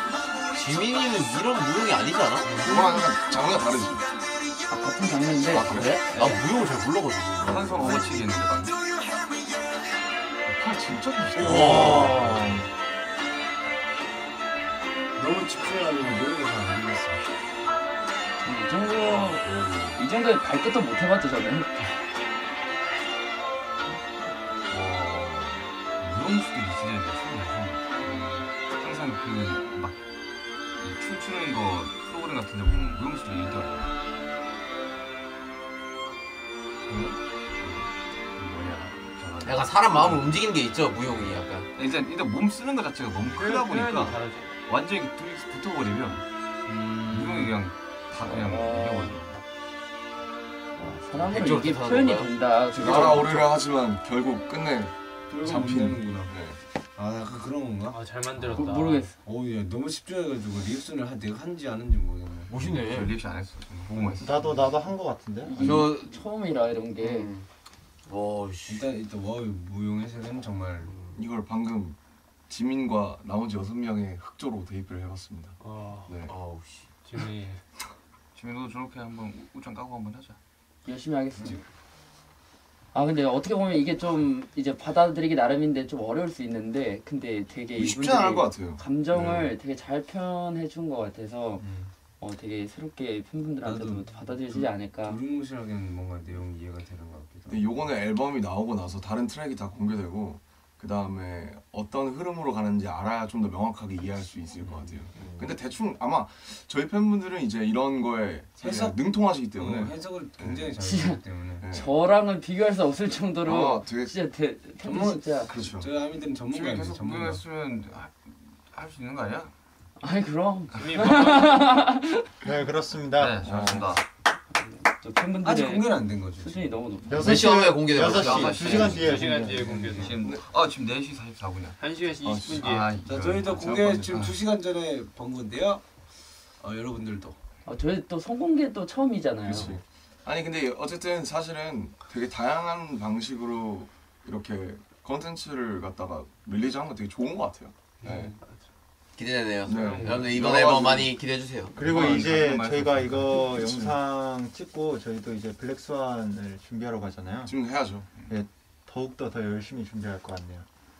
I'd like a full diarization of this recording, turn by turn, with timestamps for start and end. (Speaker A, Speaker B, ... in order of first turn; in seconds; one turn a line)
Speaker A: 0.5-2.5
Speaker B: 2.4-3.0
Speaker C: 2.5-4.1
Speaker D: 4.7-6.4
Speaker C: 5.5-6.0
Speaker A: 6.1-8.2
Speaker E: 7.4-8.8
Speaker C: 7.4-7.8
Speaker C: 10.5-12.4
Speaker B: 11.3-12.6
Speaker F: 11.4-12.6
Speaker A: 11.4-12.1
Speaker B: 15.2-17.2
Speaker D: 18.4-22.0
Speaker E: 24.7-30.0
Speaker E: 30.7-33.9
Speaker E: 37.6-40.4
Speaker A: 39.4-41.6
Speaker E: 41.7-46.2
Speaker G: 43.3-44.5
Speaker B: 46.7-47.6
Speaker E: 47.1-49.4
Speaker D: 48.2-49.2
Speaker D: 50.7-53.5
Speaker A: 51.1-52.3
Speaker C: 52.7-56.6
Speaker B: 55.3-56.3
Speaker B: 56.9-58.7
Speaker G: 57.9-59.1
Speaker D: 58.5-59.1
Speaker B: 59.2-62.6
Speaker A: 62.5-63.2
Speaker E: 62.6-64.4
Speaker B: 63.9-64.6
Speaker F: 64.2-65.9
Speaker D: 65.5-67.3
Speaker A: 65.6-66.2
Speaker A: 67.0-67.5
Speaker A: 68.0-68.9
Speaker B: 68.6-71.0
Speaker A: 70.9-71.2
Speaker C: 71.1-72.0
Speaker C: 72.5-76.3
Speaker G: 75.6-76.2
Speaker A: 76.2-76.9
Speaker G: 77.0-77.6
Speaker E: 78.3-80.4
Speaker D: 80.8-81.6
Speaker D: 82.9-91.7
Speaker C: 87.7-89.5
Speaker B: 91.6-91.9
Speaker D: 92.2-95.2
Speaker B: 93.6-97.8
Speaker C: 97.5-110.7
Speaker B: 104.6-105.3
Speaker B: 108.6-111.7
Speaker D: 110.8-115.5
Speaker C: 111.6-111.9
Speaker C: 113.4-114.2
Speaker B: 114.8-117.4
Speaker C: 115.5-115.9
Speaker E: 116.5-119.5
Speaker D: 120.0-122.4
Speaker G: 120.7-121.8
Speaker F: 122.4-123.4
Speaker E: 123.2-124.0
Speaker C: 123.4-124.0
Speaker D: 124.6-127.4
Speaker B: 125.4-126.8
Speaker F: 127.1-129.8
Speaker A: 127.2-129.0
Speaker E: 128.0-131.8
Speaker G: 128.9-130.2
Speaker B: 129.5-130.1
Speaker C: 130.2-130.4
Speaker G: 131.8-133.0
Speaker C: 132.2-132.7
Speaker E: 132.5-134.4
Speaker B: 133.0-137.4
Speaker C: 133.5-134.3
Speaker D: 137.6-139.7
Speaker C: 139.4-148.3
Speaker G: 148.0-148.6
Speaker A: 149.2-151.8
Speaker C: 149.7-151.2
Speaker G: 149.8-150.3
Speaker F: 151.7-157.5
Speaker E: 151.8-153.5
Speaker C: 153.4-154.0
Speaker C: 157.4-158.1
Speaker F: 158.2-160.7